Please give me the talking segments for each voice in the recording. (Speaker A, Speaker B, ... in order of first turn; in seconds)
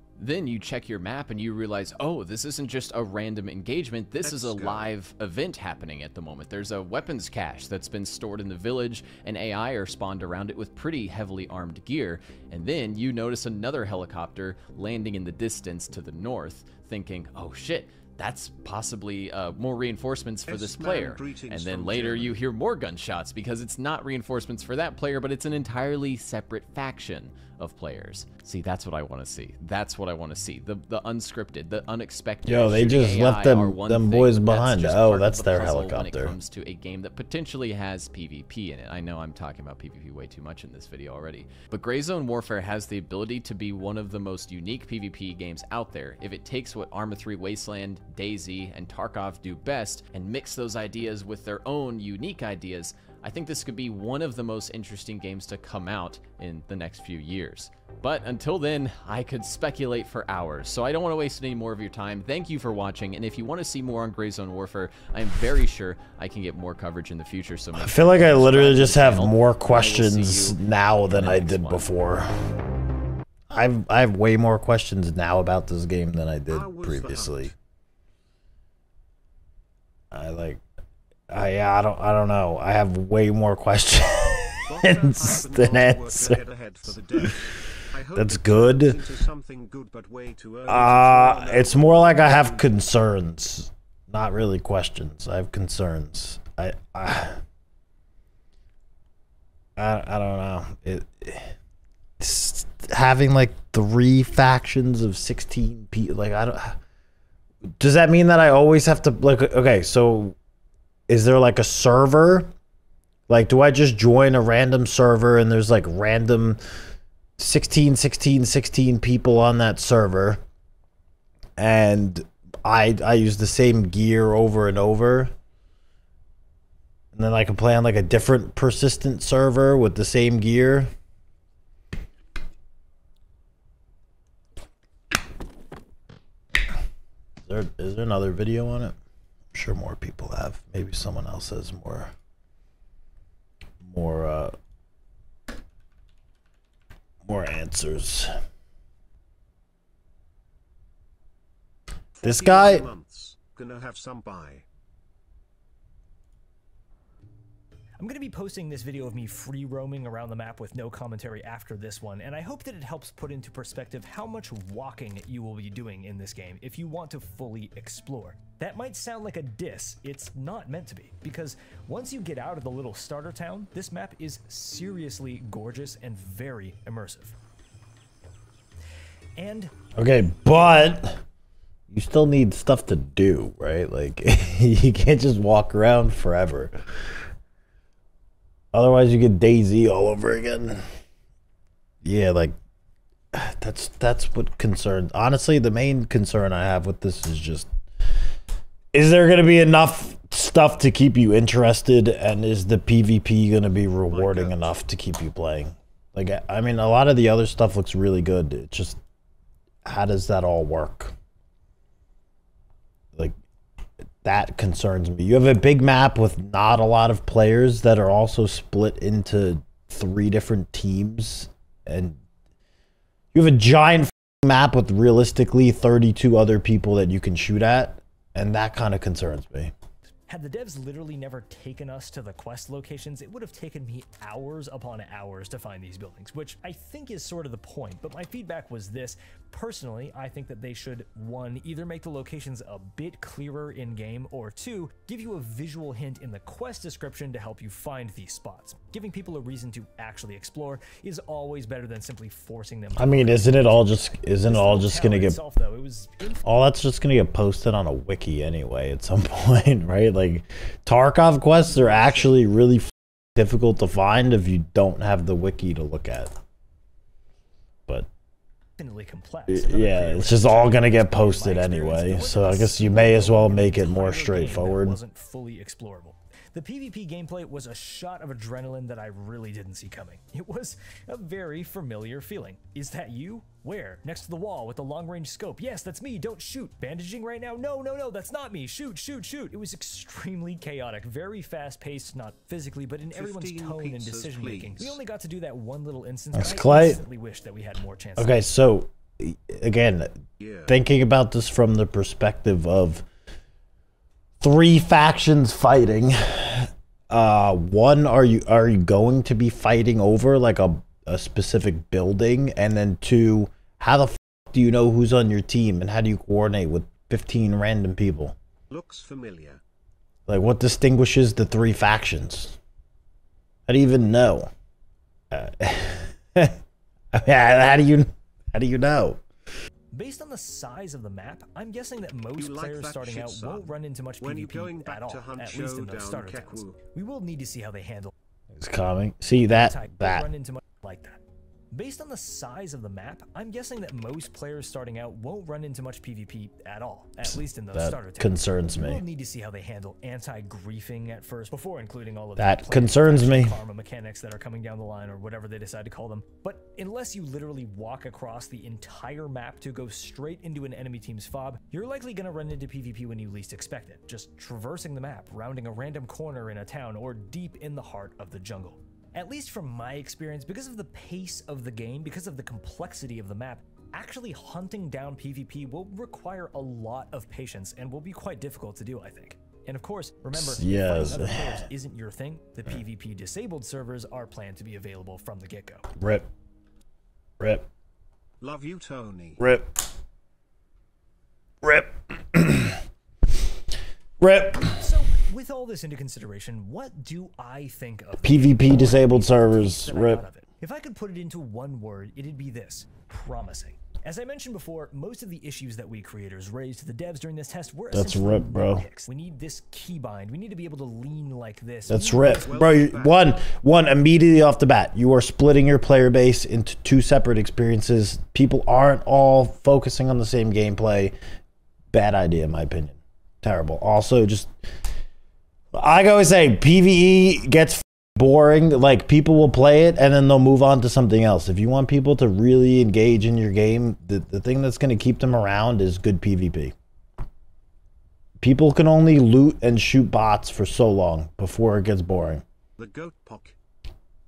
Speaker A: 0.2-71.9
Speaker B: 4.2-4.9, 20.5-22.4, 76.5-77.5, 84.7-92.8, 152.2-154.7, 204.1-204.8, 293.1-295.0, 300.4-300.7, 318.7-319.6, 332.4-336.8, 388.4-389.4, 412.3-413.3, 442.8-443.6
Speaker C: 32.5-36.4, 67.8-72.3, 73.5-77.5, 80.1-80.6, 81.3-87.6, 88.2-89.1, 90.7-97.4, 99.8-101.5, 102.2-106.8, 107.8-110.4, 111.1-112.5, 113.3-116.6, 117.4-120.4, 121.6-125.3, 127.1-130.9, 137.4-138.9, 139.5-142.1, 143.8-144.6, 147.2-148.3, 152.2-152.9, 180.0-181.2, 181.9-187.1, 188.7-190.8, 192.0-192.6, 193.3-197.7, 198.9-209.0, 209.8-211.2, 214.2-222.2, 223.3-229.7, 253.0-255.4, 256.4-266.3, 269.5-275.0, 296.4-297.0, 298.2-303.1, 304.4-318.4, 320.3-322.6, 323.7-324.5, 325.3-326.6, 327.1-329.2, 338.5-340.3, 347.7-349.0, 352.4-353.6, 380.3-381.6, 386.0-386.3, 387.4-387.7, 389.4-389.7, 391.6-392.8, 394.2-394.9, 398.2-400.2, 407.9-408.9, 411.9-421.2, 421.9-424.5, 425.7-436.8, 438.4-442.4
Speaker D: 158.0-177.4, 179.4-179.7, 230.3-256.5, 268.8-298.4, 329.9-338.1, 339.5-341.2, 341.7-385.9, 394.7-412.7